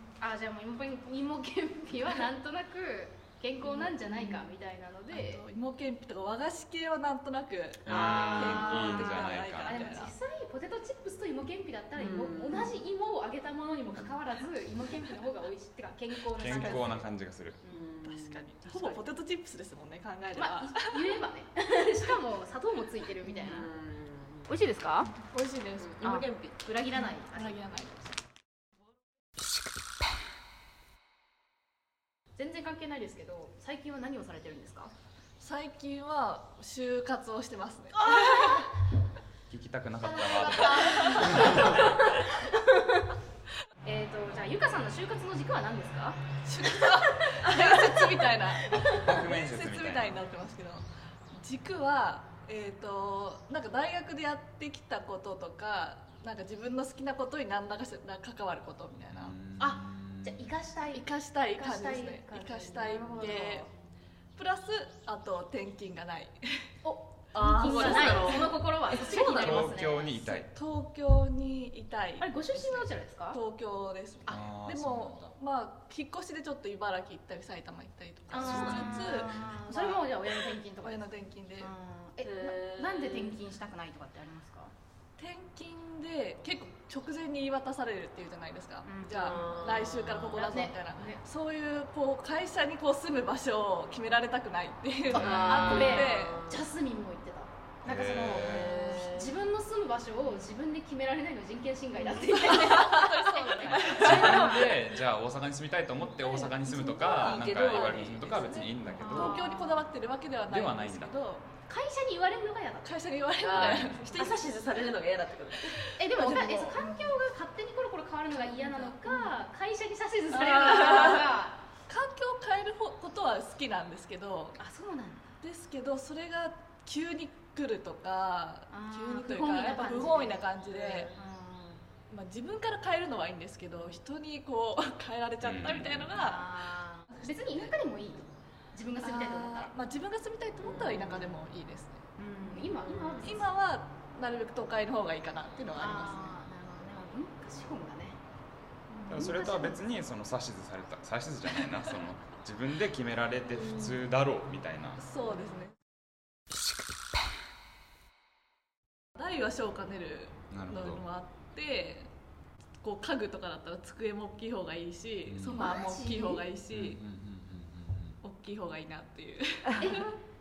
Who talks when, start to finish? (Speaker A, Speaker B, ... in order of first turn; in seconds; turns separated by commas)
Speaker A: 0.2-5.4, Speaker B: 5.1-10.1, Speaker C: 7.9-8.4, Speaker D: 7.9-9.9, Speaker A: 7.9-17.1, Speaker C: 11.9-12.8, Speaker D: 16.4-17.6, Speaker B: 16.4-16.8, Speaker C: 17.7-19.0, Speaker B: 18.1-21.2, Speaker A: 20.3-23.7, Speaker C: 23.2-24.5, Speaker A: 24.5-25.1, Speaker B: 25.2-26.2, Speaker C: 25.8-26.6, Speaker A: 26.0-27.6, Speaker B: 27.0-28.2, Speaker A: 32.4-34.9, Speaker B: 35.4-38.7, Speaker A: 38.0-38.7, Speaker D: 39.5-42.0, Speaker A: 40.0-43.1, Speaker B: 40.6-41.9, Speaker A: 43.8-46.2, Speaker B: 46.4-59.4, Speaker A: 47.3-48.2, Speaker D: 48.7-50.2, Speaker D: 59.1-60.5, Speaker A: 59.6-63.7, Speaker B: 60.9-63.7, Speaker C: 63.0-63.6, Speaker B: 64.3-66.7, Speaker A: 66.8-70.4, Speaker C: 67.3-69.4, Speaker B: 67.3-69.7, Speaker D: 69.2-70.5, Speaker B: 70.5-81.7, Speaker A: 72.2-73.4, Speaker D: 74.3-75.3, Speaker A: 78.3-84.7, Speaker D: 78.4-79.3, Speaker C: 82.2-83.4, Speaker B: 85.2-96.5, Speaker A: 88.8-89.5, Speaker C: 89.1-90.5, Speaker A: 90.3-91.2, Speaker C: 95.1-96.7, Speaker D: 95.1-95.4, Speaker A: 95.1-104.9, Speaker D: 97.8-98.8, Speaker C: 98.2-99.3, Speaker C: 102.0-102.5, Speaker B: 102.2-104.7, Speaker D: 104.0-109.4, Speaker B: 106.2-111.5, Speaker C: 106.6-109.2, Speaker A: 109.0-109.8, Speaker D: 110.5-111.1, Speaker A: 111.7-113.0, Speaker B: 112.8-114.4, Speaker C: 113.4-115.8, Speaker A: 113.5-114.3, Speaker B: 115.6-117.1, Speaker A: 116.0-121.6, Speaker B: 118.3-119.3, Speaker B: 120.3-121.3, Speaker B: 121.9-124.6, Speaker A: 124.6-125.3, Speaker B: 125.4-131.1, Speaker A: 128.7-131.8, Speaker C: 130.7-131.1, Speaker B: 132.1-137.7, Speaker D: 135.4-136.1, Speaker A: 135.6-139.7, Speaker B: 139.0-142.0, Speaker A: 140.6-141.3, Speaker C: 140.8-141.2, Speaker A: 142.2-143.5, Speaker C: 142.9-143.4, Speaker B: 143.2-146.4, Speaker A: 145.7-148.2, Speaker A: 149.1-149.8, Speaker D: 149.1-155.0, Speaker B: 155.0-155.8, Speaker B: 159.1-162.1, Speaker D: 160.5-161.0, Speaker B: 162.8-167.0, Speaker D: 165.2-165.7, Speaker A: 165.4-166.4, Speaker D: 166.7-168.2, Speaker B: 168.2-170.2, Speaker A: 169.7-170.1